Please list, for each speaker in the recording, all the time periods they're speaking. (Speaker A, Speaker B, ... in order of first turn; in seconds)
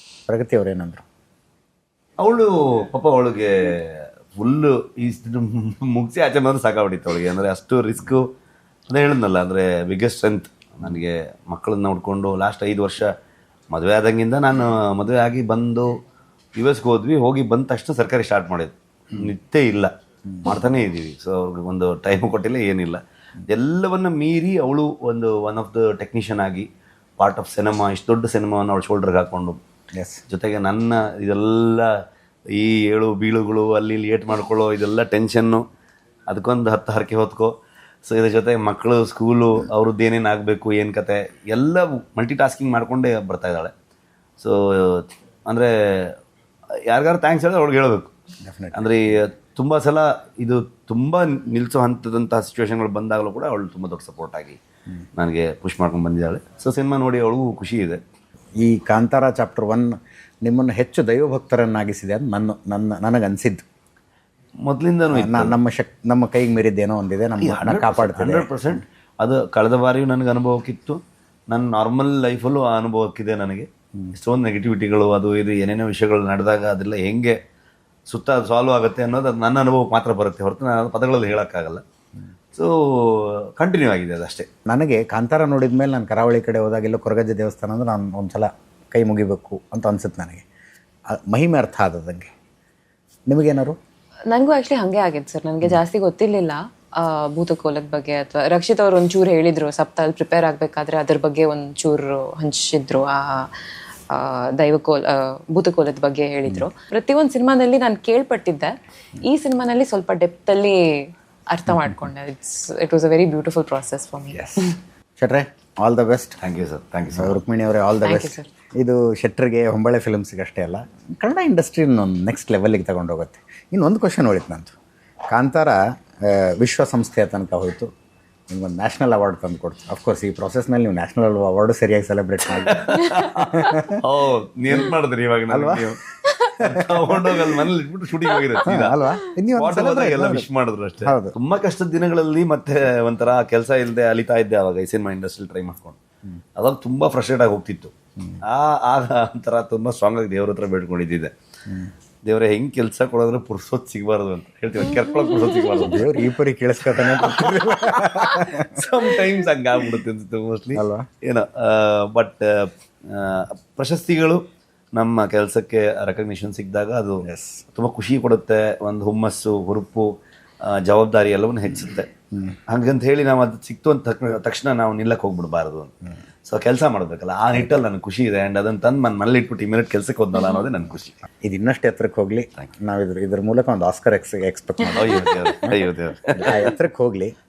Speaker A: 0.3-1.1, 30.0-30.2, 48.4-49.0, 58.6-63.7, 65.1-68.7, 84.7-90.5, 91.1-92.3, 93.3-93.8, 114.3-116.4, 117.2-124.8, 125.3-127.9, 128.5-134.0, 135.5-137.5, 138.6-140.5, 141.0-141.3, 155.8-158.8, 160.8-161.1, 167.2-167.6, 181.4-185.8, 186.3-187.3
Speaker B: 2.2-8.3, 8.9-13.1, 13.7-15.9, 16.6-19.9, 20.4-26.7, 27.2-29.6, 30.3-31.9, 32.5-35.6, 36.3-37.5, 38.1-43.7, 44.4-46.2, 46.9-48.1, 48.7-54.6, 55.2-58.0, 64.6-65.6, 67.4-77.4, 78.1-81.8, 82.5-84.5, 116.4-117.4, 132.6-136.0, 136.6-139.0, 139.6-146.0, 146.6-151.3, 152.3-164.4, 165.0-170.1, 170.6-172.1, 172.7-175.9, 176.5-181.2, 184.9-186.8
Speaker C: 94.3-103.5, 104.1-114.7, 118.0-118.5